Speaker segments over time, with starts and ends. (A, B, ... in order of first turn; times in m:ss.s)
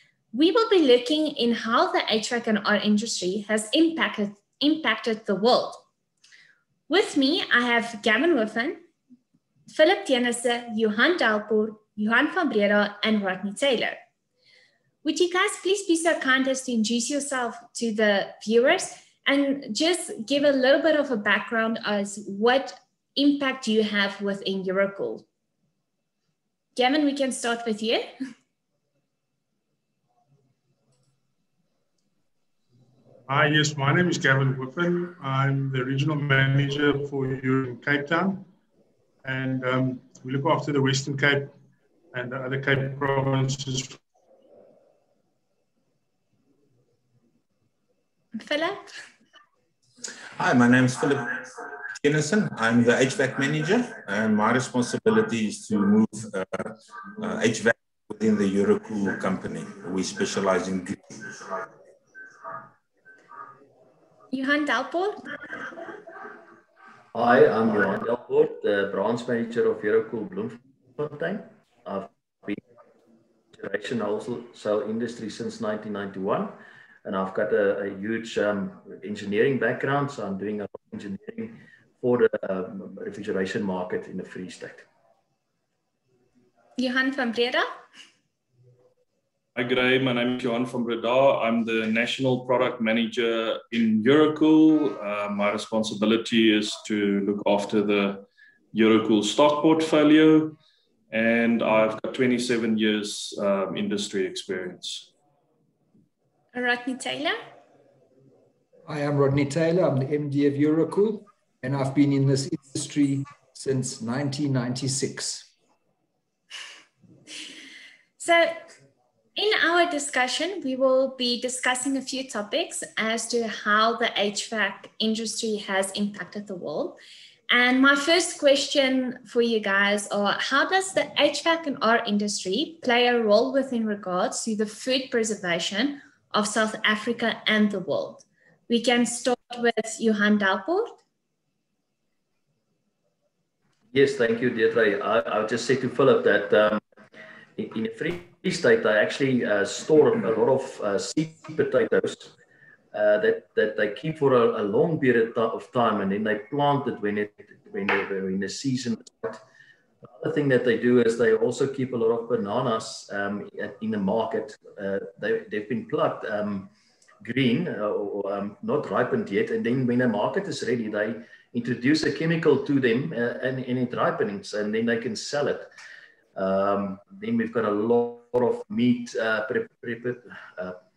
0:00.3-0:05.8 A
0:06.9-0:08.8 A
0:09.7-0:14.0 A
0:15.0-0:25.2 A
0:26.7-0:28.0 A
0:33.3-0:38.4 B
0:39.2-0:41.5 B
0:42.1-0:44.0 B
0:48.4-0:48.9 A
0:50.4-1:01.6 C
1:04.3-1:05.2 A
1:07.1-1:12.6 D
1:13.5-1:24.8 D
1:26.8-1:27.6 A
1:29.6-1:40.6 E
1:41.1-1:45.1 E
1:46.5-1:47.4 A
1:48.8-1:55.5 F
1:58.2-1:58.6 A
1:59.4-2:07.0 A
2:07.5-2:21.0 A
2:23.9-2:26.8 D
2:27.6-2:32.3 D
2:32.9-2:39.4 D
2:40.1-2:46.7 D
2:47.2-2:55.7 D
2:56.3-3:00.8 D